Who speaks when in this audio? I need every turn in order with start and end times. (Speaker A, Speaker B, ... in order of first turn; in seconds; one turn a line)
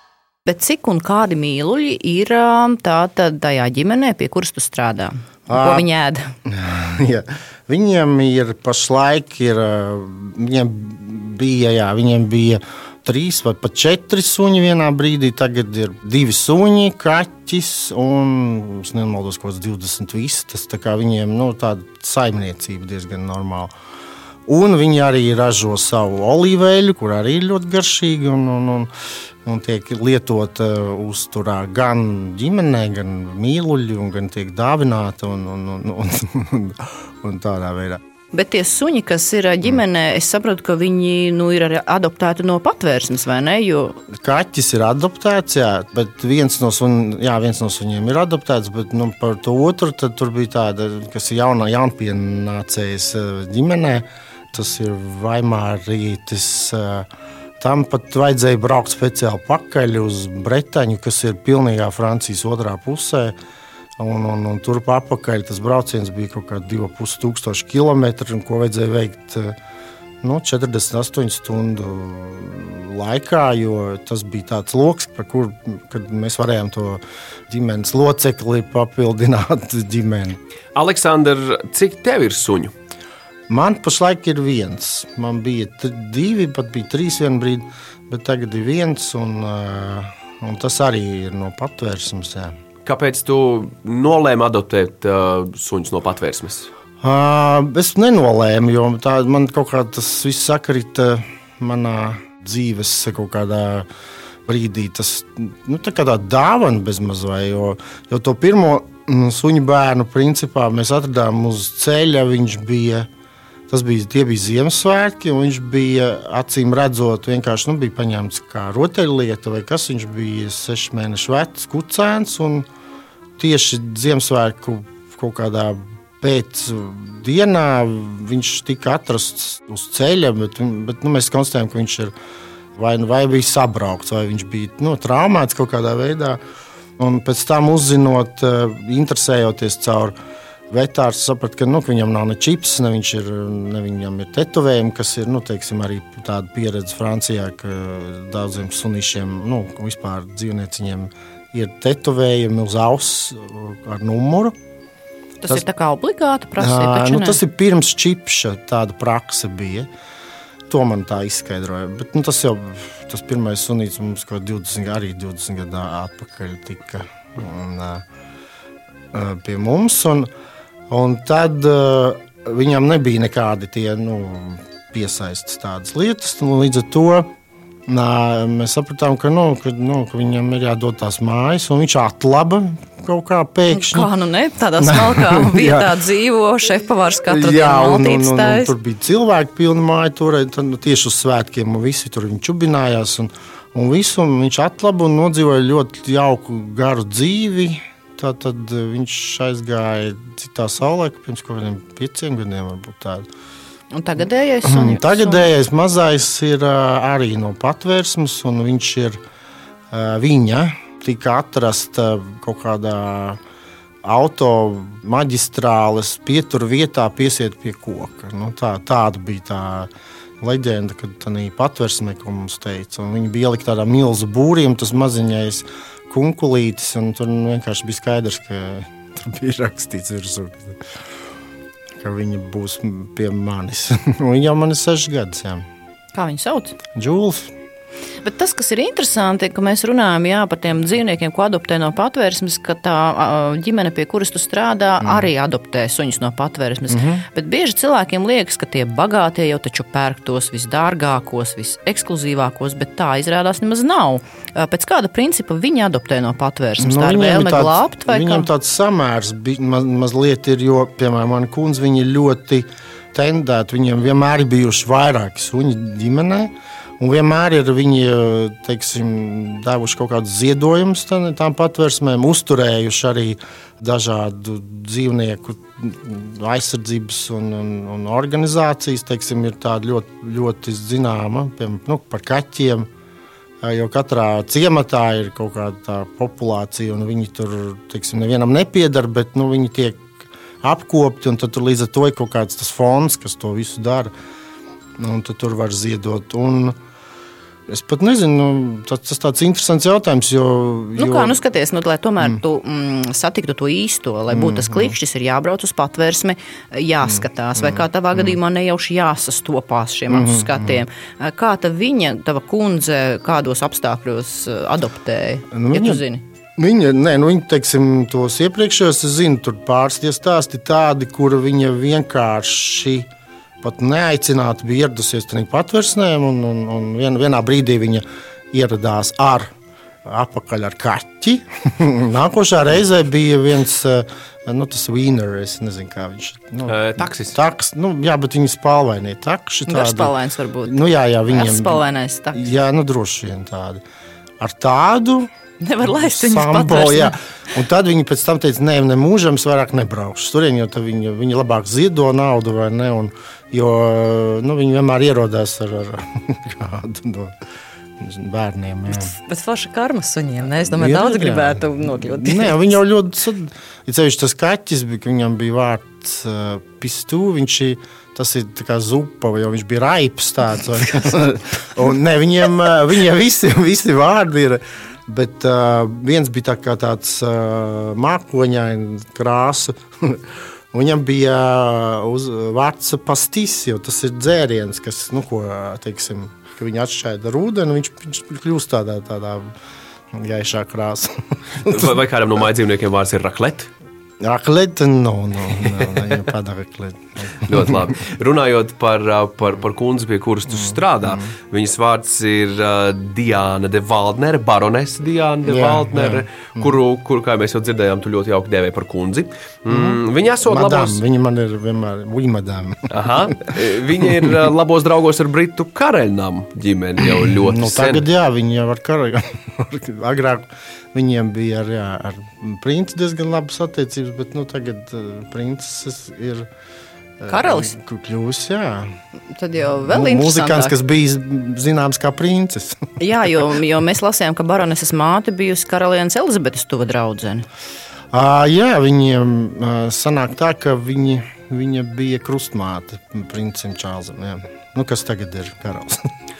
Speaker A: 0.5-6.3
Speaker B: 5.5-5.8
Speaker B: 6.5-23.7
Speaker B: 24.5-28.9
Speaker B: 29.4-38.0
Speaker A: 38.3-44.0
Speaker B: 44.1-57.1
Speaker B: 57.6-63.3
Speaker B: 64.0-69.5
Speaker B: 70.2-80.4
Speaker C: 80.7-82.7
Speaker B: 83.5-92.5
Speaker C: 92.8-96.7
Speaker B: 97.0-103.9
Speaker B: 104.5-113.1
Speaker B: 113.7-122.7
Speaker B: 123.4-132.1
Speaker B: 132.7-136.4
Speaker B: 137.0-140.1
Speaker B: 140.7-154.5
Speaker A: 155.4-157.4
Speaker B: 156.6-159.9
Speaker B: 160.7-168.0
Speaker B: 169.1-170.3
Speaker B: 170.9-177.3
Speaker B: 177.9-184.1
Speaker A: 183.7-188.7
Speaker B: 184.8-185.9
Speaker B: 187.3-203.3
Speaker A: 203.9-205.5
Speaker B: 204.6-209.2
Speaker B: 209.9-213.4
Speaker B: 214.0-219.9
Speaker B: 220.4-230.8
Speaker B: 232.0-235.7
Speaker A: 236.1-236.8
Speaker B: 236.9-237.5
Speaker A: 238.2-258.5
Speaker B: 245.0-245.3
Speaker B: 246.9-247.2
Speaker B: 256.8-282.9
Speaker B: 283.6-290.1
Speaker B: 290.6-294.1
Speaker B: 295.0-296.8
Speaker B: 297.7-301.4
Speaker A: 301.0-316.2
Speaker B: 304.3-304.9
Speaker B: 307.1-308.4
Speaker B: 310.1-310.8
Speaker B: 315.5-316.0
Speaker B: 316.6-323.1
Speaker B: 323.6-329.5
Speaker B: 330.0-340.1
Speaker C: 336.7-337.4
Speaker A: 339.7-342.4
Speaker B: 340.6-343.8
Speaker B: 344.4-345.3
Speaker A: 345.6-347.2
Speaker B: 345.8-357.3
Speaker B: 358.0-359.1
Speaker A: 358.9-362.6
Speaker B: 360.6-389.5
Speaker B: 390.1-391.9
Speaker C: 391.6-393.7
Speaker B: 394.2-397.9
Speaker C: 397.4-411.0
Speaker B: 400.5-401.3
Speaker B: 405.4-406.8
Speaker B: 409.7-413.5
Speaker C: 412.9-418.0
Speaker B: 417.2-426.5
Speaker B: 427.2-428.9
Speaker A: 427.3-427.7
Speaker A: 429.3-430.7
Speaker B: 429.8-433.0
Speaker A: 433.0-437.4
Speaker B: 438.1-446.1